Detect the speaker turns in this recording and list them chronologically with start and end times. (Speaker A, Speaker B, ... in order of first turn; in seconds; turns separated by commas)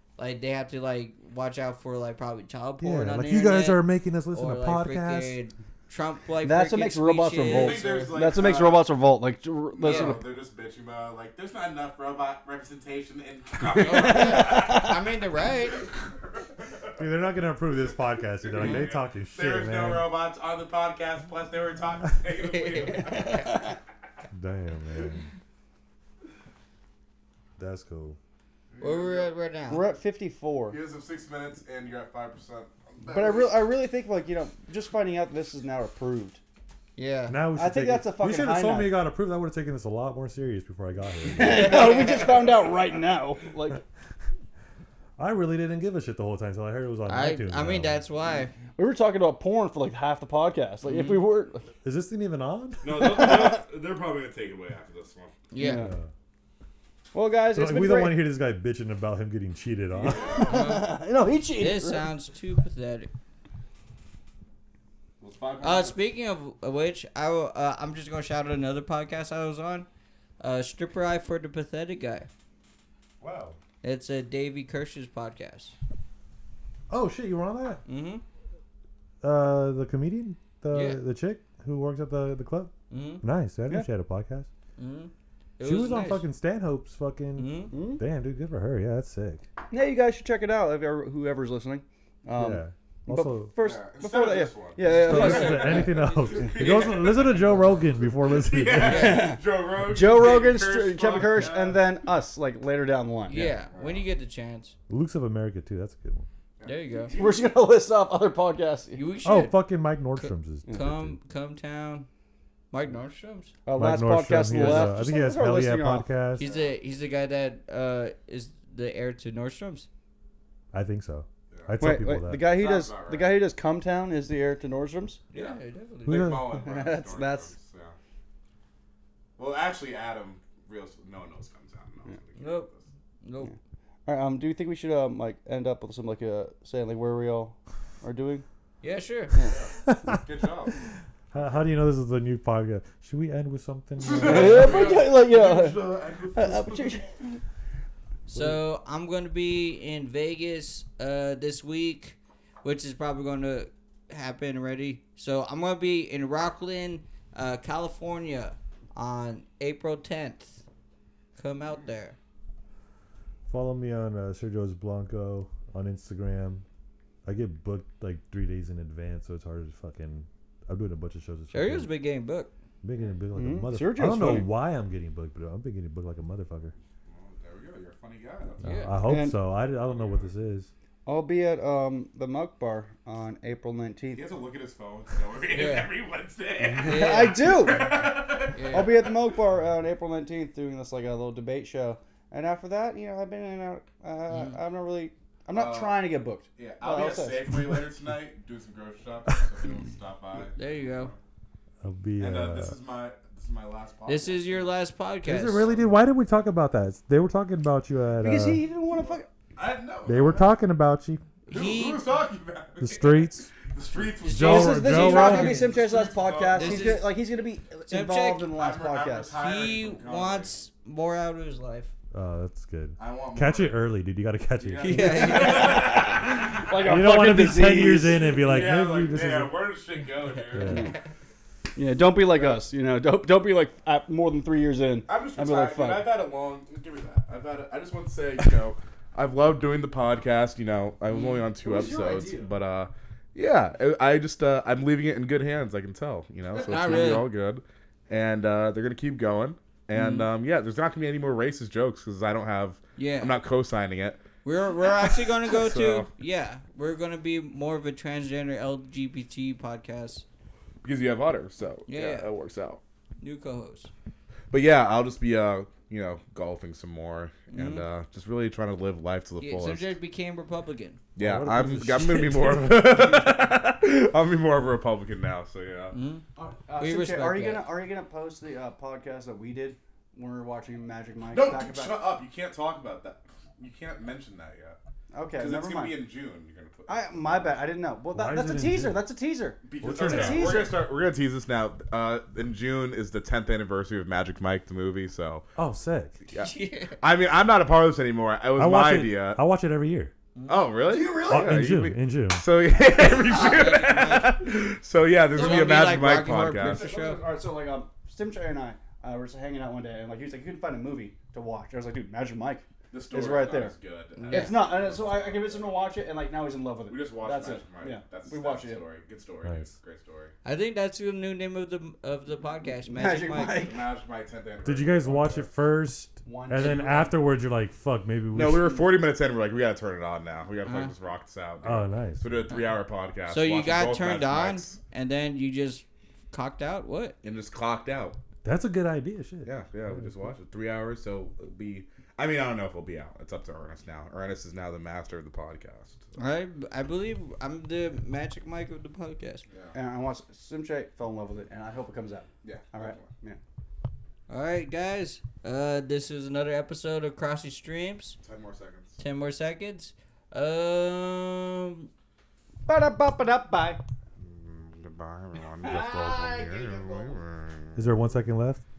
Speaker A: 0.2-8.4, Speaker B: 2.8-5.4, Speaker C: 6.4-10.2, Speaker D: 7.4-8.9, Speaker D: 9.8-17.0, Speaker A: 9.8-10.2, Speaker A: 13.8-15.9, Speaker C: 13.8-14.9, Speaker B: 17.0-20.1, Speaker D: 18.4-23.7, Speaker A: 18.6-18.9, Speaker A: 22.4-23.6, Speaker B: 24.3-25.2, Speaker B: 27.6-28.2, Speaker D: 28.7-29.3, Speaker A: 28.8-29.9, Speaker C: 29.7-30.8, Speaker D: 30.7-33.6, Speaker C: 33.1-36.4, Speaker A: 37.0-37.4, Speaker B: 37.3-41.9, Speaker C: 37.5-39.0, Speaker C: 41.3-43.8, Speaker B: 45.2-48.0, Speaker A: 47.1-48.5, Speaker C: 48.8-51.7, Speaker A: 50.9-51.2, Speaker B: 51.8-53.2, Speaker D: 52.8-55.4, Speaker C: 53.0-53.6, Speaker A: 55.5-55.9, Speaker C: 55.6-55.9, Speaker B: 55.7-56.1, Speaker C: 57.1-58.3, Speaker B: 57.5-60.4, Speaker D: 60.0-60.6, Speaker C: 60.1-62.1, Speaker A: 60.4-61.0, Speaker A: 61.6-63.1, Speaker D: 65.2-66.0, Speaker A: 65.6-69.9, Speaker A: 70.4-72.3, Speaker D: 73.2-73.6, Speaker A: 73.8-75.8, Speaker B: 76.9-77.8, Speaker A: 77.9-78.2, Speaker B: 79.2-84.5, Speaker A: 80.7-81.0, Speaker A: 82.9-83.2, Speaker A: 84.8-86.2, Speaker B: 85.6-89.4, Speaker A: 87.4-87.7, Speaker C: 87.7-88.0, Speaker C: 89.7-96.1, Speaker B: 92.3-93.5, Speaker D: 93.6-97.5, Speaker A: 94.8-96.9, Speaker B: 94.9-99.3, Speaker D: 98.3-101.8, Speaker C: 98.7-103.6, Speaker A: 98.8-99.3, Speaker A: 103.3-104.8, Speaker D: 103.4-104.1, Speaker B: 104.9-106.3, Speaker D: 106.6-107.4, Speaker A: 106.6-107.1, Speaker C: 107.1-109.0, Speaker A: 109.0-109.6, Speaker B: 109.2-111.2, Speaker A: 110.2-112.1, Speaker A: 112.7-113.5, Speaker C: 113.7-116.1, Speaker B: 113.8-116.5, Speaker A: 114.5-115.0, Speaker A: 116.4-119.9, Speaker D: 116.4-116.8, Speaker B: 120.7-122.5, Speaker D: 121.5-121.8, Speaker C: 121.8-125.2, Speaker D: 122.4-123.4, Speaker A: 125.3-126.4, Speaker D: 125.3-128.0, Speaker B: 126.1-126.5, Speaker C: 126.5-127.5, Speaker D: 129.4-132.8, Speaker A: 132.4-132.7, Speaker A: 133.2-133.5, Speaker C: 134.1-138.4, Speaker A: 138.8-139.5, Speaker D: 139.5-140.8, Speaker B: 139.9-140.2, Speaker B: 141.3-145.0, Speaker D: 144.0-147.1, Speaker C: 144.2-147.4, Speaker A: 144.4-144.7, Speaker A: 148.3-160.6, Speaker A: 161.4-162.2, Speaker B: 163.5-166.7, Speaker B: 167.2-171.9, Speaker A: 171.5-172.5, Speaker B: 172.8-176.8, Speaker C: 173.3-174.5, Speaker D: 177.1-178.7, Speaker A: 178.6-179.0, Speaker B: 178.6-180.7, Speaker C: 179.1-179.4, Speaker D: 179.9-180.3, Speaker C: 181.1-184.2, Speaker D: 184.2-189.2, Speaker A: 185.5-185.9, Speaker A: 186.8-187.7, Speaker C: 186.8-188.1, Speaker A: 188.5-189.0, Speaker C: 188.7-197.5, Speaker A: 194.3-194.6, Speaker D: 195.5-201.2, Speaker A: 200.5-201.1, Speaker B: 201.8-202.8, Speaker D: 202.2-204.7, Speaker A: 204.1-205.7, Speaker B: 205.2-208.6, Speaker D: 205.5-205.9, Speaker C: 208.2-209.3, Speaker D: 209.6-210.5, Speaker B: 210.1-211.2, Speaker A: 211.5-212.1, Speaker D: 211.5-217.0, Speaker B: 212.8-213.6, Speaker B: 214.2-215.6, Speaker A: 214.2-215.8, Speaker C: 214.4-219.4, Speaker A: 216.5-217.2, Speaker A: 217.9-218.5, Speaker D: 218.5-220.5, Speaker A: 219.4-221.9, Speaker B: 222.1-229.6, Speaker D: 223.0-223.8, Speaker D: 224.6-226.4, Speaker A: 224.8-226.1, Speaker C: 225.2-228.4, Speaker D: 228.4-230.9, Speaker B: 230.5-230.9, Speaker A: 230.7-230.9, Speaker C: 230.7-230.9, Speaker C: 231.8-236.1, Speaker D: 232.3-232.6, Speaker D: 235.1-254.2, Speaker A: 241.1-241.4, Speaker C: 241.6-242.5, Speaker C: 246.5-247.2, Speaker A: 246.7-247.3, Speaker A: 249.9-250.3, Speaker A: 253.0-253.3, Speaker A: 254.4-260.2, Speaker D: 254.8-256.1, Speaker D: 260.8-262.8, Speaker A: 261.9-262.3, Speaker A: 263.2-263.9, Speaker D: 264.5-269.9, Speaker A: 267.5-267.9, Speaker A: 269.4-271.0, Speaker D: 271.2-275.9, Speaker B: 271.2-273.0, Speaker A: 275.9-276.2, Speaker C: 276.4-282.0, Speaker A: 276.8-277.7, Speaker D: 281.3-284.8, Speaker C: 285.1-286.0, Speaker D: 285.4-287.6, Speaker C: 286.9-290.8, Speaker B: 288.1-289.0, Speaker D: 289.6-295.5, Speaker B: 289.8-290.7, Speaker B: 295.6-296.2, Speaker D: 296.3-299.4, Speaker A: 296.4-297.0, Speaker B: 298.6-300.1, Speaker A: 300.4-300.7, Speaker D: 300.5-307.0, Speaker C: 300.9-301.7, Speaker B: 301.3-302.4, Speaker A: 302.9-304.4, Speaker A: 305.3-307.2, Speaker C: 305.4-305.8, Speaker C: 306.6-313.7, Speaker D: 312.9-315.8, Speaker A: 314.2-314.6, Speaker C: 314.3-318.8, Speaker D: 316.9-320.3, Speaker A: 320.4-323.7, Speaker C: 322.9-323.8, Speaker D: 323.6-325.5, Speaker B: 324.6-328.8, Speaker C: 326.3-327.1, Speaker D: 328.3-334.8, Speaker A: 330.6-330.9, Speaker B: 331.6-332.4, Speaker A: 332.5-332.8, Speaker A: 333.3-337.2, Speaker D: 337.2-338.2, Speaker B: 338.4-339.5, Speaker D: 339.4-346.2, Speaker A: 346.2-349.4, Speaker D: 349.5-349.8, Speaker C: 349.7-353.4, Speaker D: 352.4-353.1, Speaker A: 354.3-358.2, Speaker D: 358.2-359.0, Speaker A: 359.0-361.9, Speaker C: 362.7-363.8, Speaker D: 364.2-367.9, Speaker A: 365.6-367.2, Speaker B: 367.8-368.6